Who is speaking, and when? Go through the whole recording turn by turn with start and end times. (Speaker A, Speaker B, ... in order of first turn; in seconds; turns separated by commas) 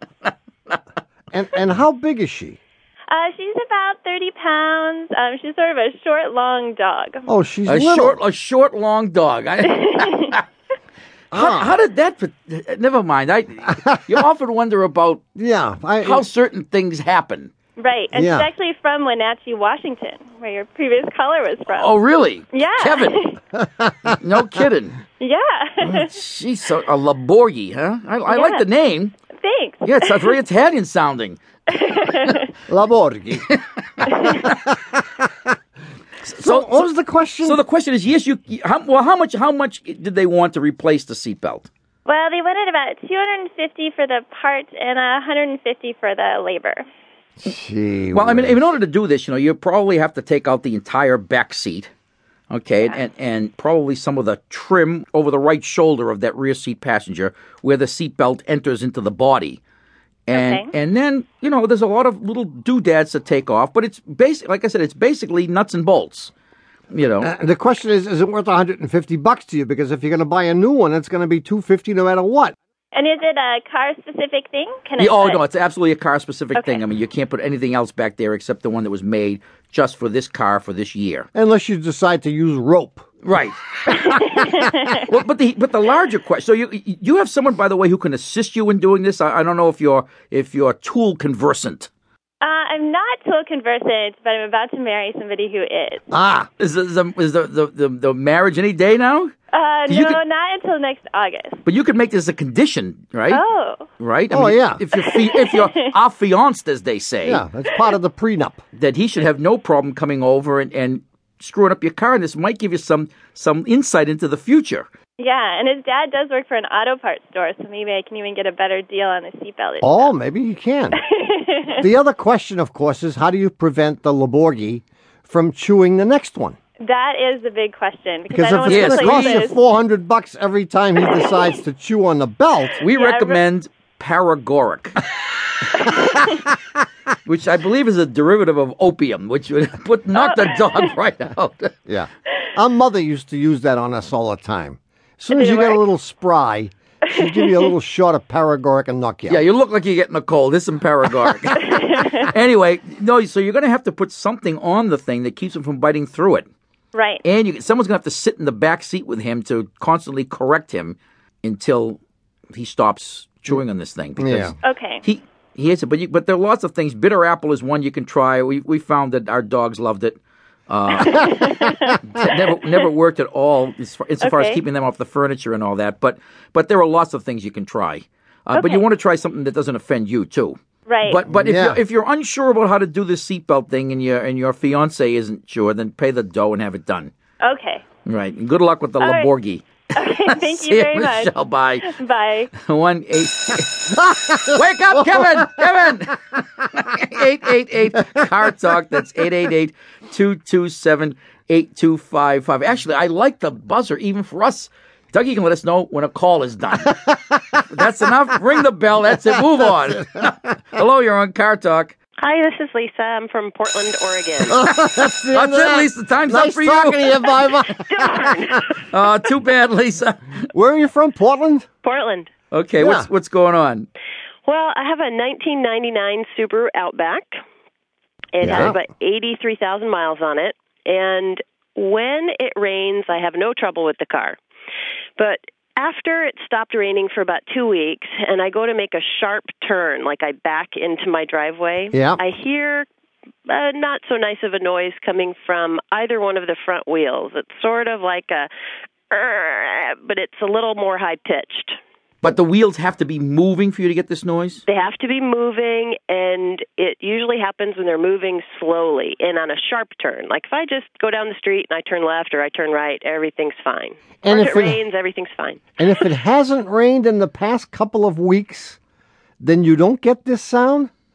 Speaker A: 0.2-0.8, Speaker B: 1.3-2.6, Speaker C: 3.1-7.3, Speaker B: 7.3-8.2, Speaker A: 7.7-10.4, Speaker C: 9.7-10.3, Speaker B: 11.3-11.7, Speaker A: 11.3-15.2, Speaker B: 15.4-16.2, Speaker A: 16.0-17.5, Speaker C: 17.8-21.9, Speaker B: 18.1-18.5, Speaker A: 21.7-23.2, Speaker C: 22.5-23.4, Speaker B: 23.6-24.2, Speaker A: 24.1-25.0, Speaker C: 25.2-26.1, Speaker A: 25.8-29.1, Speaker C: 28.3-28.7, Speaker C: 29.3-30.4, Speaker A: 29.9-31.4, Speaker C: 31.7-32.5, Speaker B: 32.7-33.5, Speaker A: 33.5-34.6, Speaker B: 34.9-35.3, Speaker A: 36.2-36.9, Speaker B: 36.4-37.6, Speaker A: 37.4-41.7, Speaker C: 42.1-46.8, Speaker B: 47.4-48.7, Speaker A: 48.1-51.9, Speaker A: 52.5-59.6, Speaker A: 60.3-66.3, Speaker C: 60.3-60.7, Speaker A: 66.9-67.3, Speaker B: 67.2-72.5, Speaker C: 72.9-75.4, Speaker A: 75.0-81.3, Speaker C: 76.5-76.8, Speaker B: 81.3-83.1, Speaker A: 83.2-91.9, Speaker C: 84.2-85.0, Speaker C: 92.4-96.0, Speaker B: 96.1-96.5, Speaker A: 96.6-99.3, Speaker C: 99.5-101.6, Speaker A: 99.9-100.2, Speaker A: 101.7-103.4, Speaker C: 103.3-103.9, Speaker A: 104.0-107.4, Speaker B: 104.3-104.8, Speaker C: 104.9-105.9, Speaker B: 107.2-108.6, Speaker A: 108.8-114.9, Speaker C: 115.2-120.1, Speaker B: 119.8-121.0, Speaker C: 121.0-121.8, Speaker B: 121.7-126.6, Speaker C: 126.8-129.6, Speaker B: 128.3-132.8, Speaker A: 128.7-129.4, Speaker A: 132.8-135.0, Speaker C: 132.9-133.4, Speaker C: 135.8-136.2, Speaker A: 137.2-141.8, Speaker C: 140.2-140.9, Speaker B: 141.9-149.4, Speaker C: 145.3-145.8, Speaker C: 147.1-147.7, Speaker A: 149.3-156.5, Speaker C: 151.6-152.3, Speaker C: 156.9-157.2, Speaker A: 157.2-162.0, Speaker A: 162.5-187.1, Speaker B: 164.2-164.5, Speaker C: 164.6-165.0, Speaker C: 170.9-172.3, Speaker C: 174.2-174.6, Speaker C: 178.5-178.8, Speaker C: 180.9-181.2, Speaker B: 181.3-181.8, Speaker C: 187.4-187.8, Speaker A: 188.1-192.0, Speaker C: 189.0-189.3, Speaker C: 189.9-191.3, Speaker C: 191.8-192.5, Speaker A: 192.6-207.0, Speaker B: 194.1-194.4, Speaker B: 195.0-195.7, Speaker A: 207.6-211.9, Speaker D: 212.2-214.6, Speaker B: 214.5-218.3, Speaker A: 214.7-217.4, Speaker D: 217.9-218.8, Speaker A: 218.9-220.4, Speaker B: 220.5-221.7, Speaker D: 221.8-222.3, Speaker A: 222.5-223.9, Speaker B: 222.8-223.1, Speaker D: 224.4-227.3, Speaker D: 228.3-234.4, Speaker B: 228.4-228.8, Speaker D: 235.2-242.9, Speaker B: 241.9-242.2, Speaker D: 243.5-248.5, Speaker D: 249.1-251.8, Speaker A: 252.2-254.6, Speaker D: 254.7-265.8, Speaker B: 264.2-264.8, Speaker B: 265.8-268.8, Speaker B: 269.4-270.9